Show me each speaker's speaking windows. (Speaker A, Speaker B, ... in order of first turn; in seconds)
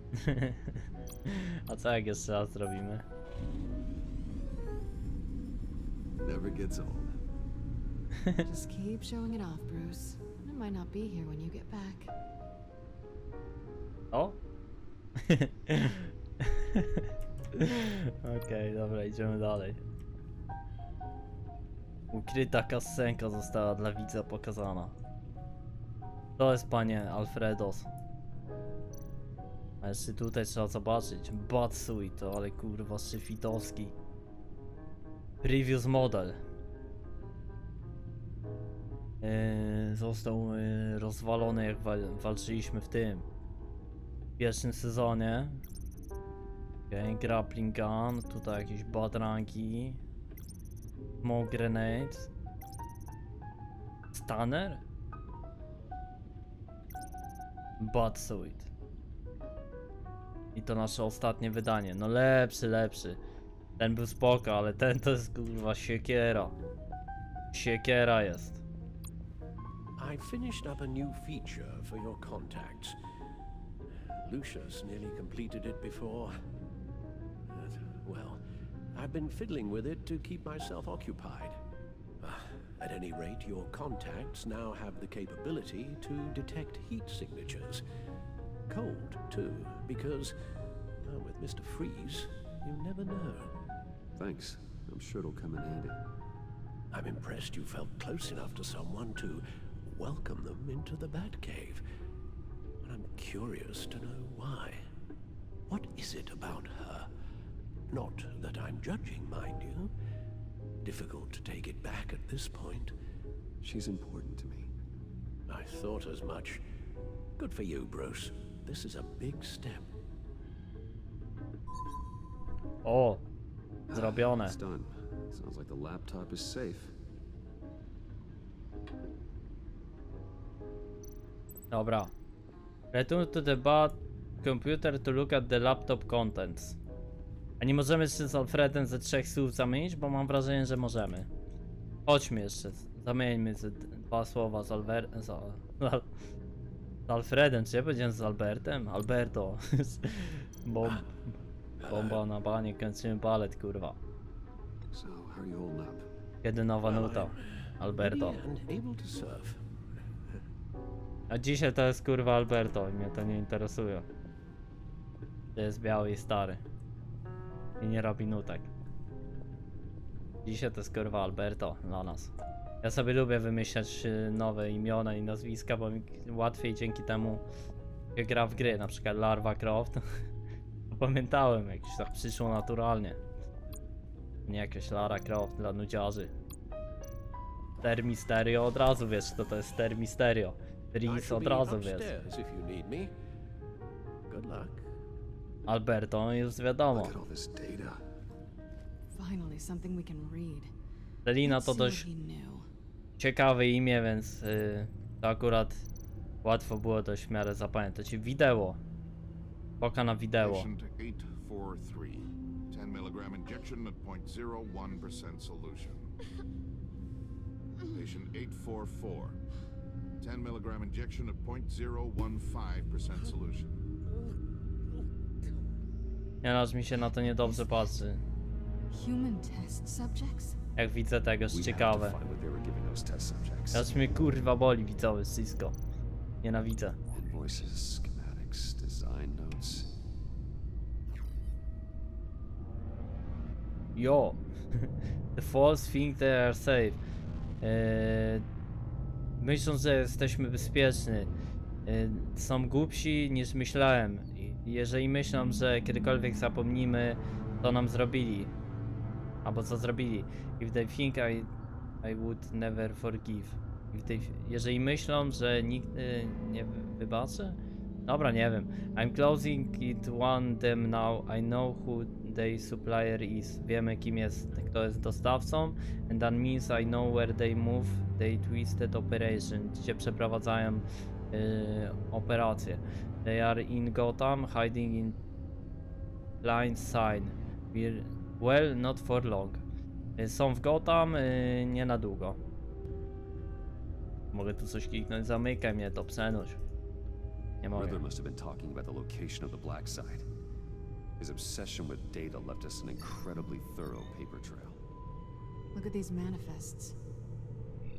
Speaker A: 0.1-3.0, 14.1-14.4, 15.2-19.8, 22.1-24.9, 26.4-27.9, 29.8-33.9, 35.4-36.4, 39.2-43.2, 44.4-45.6, 46.9-50.0, 51.2-52.3, 54.1-54.8, 57.8-58.7, 60.5-63.2, 63.8-66.5, 67.5-68.6, 122.8-123.2, 123.9-124.6, 131.7-132.1, 132.9-136.8, 137.6-141.3, 142.1-146.1, 147.1-151.3, 151.8-154.0, 156.4-158.4, 161.3-164.1, 165.5-166.6, 167.8-168.7, 170.4-172.3, 172.8-177.4, 178.2-180.0, 180.9-183.2, 184.5-186.3, 187.8-192.1, 195.7-197.2, 201.2-202.1, 203.2-205.9, 206.4-208.8, 209.8-210.7, 226.4-228.2, 230.8-232.2, 233.7-235.8, 236.4-237.0, 243.9-247.0, 247.6-248.4, 249.4-251.3, 251.8-258.5, 259.4-261.5, 262.0-285.2, 286.4-289.6, 290.2-292.4, 294.3-296.6, 297.6-298.0
Speaker B: 6.2-7.2, 94.2-96.0, 113.6-114.7, 123.9-126.9, 154.9-156.1, 196.9-198.0, 231.5-233.9, 237.1-240.0, 297.7-300.3, 301.2-304.8
Speaker C: 8.4-12.1, 199.1-200.7, 201.4-202.7, 227.4-227.9, 228.9-230.6, 305.7-307.0
Speaker D: 70.0-73.0, 74.2-76.4, 77.5-78.4, 78.9-81.6, 82.2-87.8, 88.7-90.3, 91.0-93.5, 96.9-101.8, 102.8-104.8, 105.7-107.1, 107.9-109.9, 110.8-112.9, 115.5-116.6, 117.4-119.9, 151.8-152.2, 156.8-159.6, 191.0-193.1, 194.3-194.9
Speaker E: 210.4-216.1, 217.9-219.4, 220.2-223.8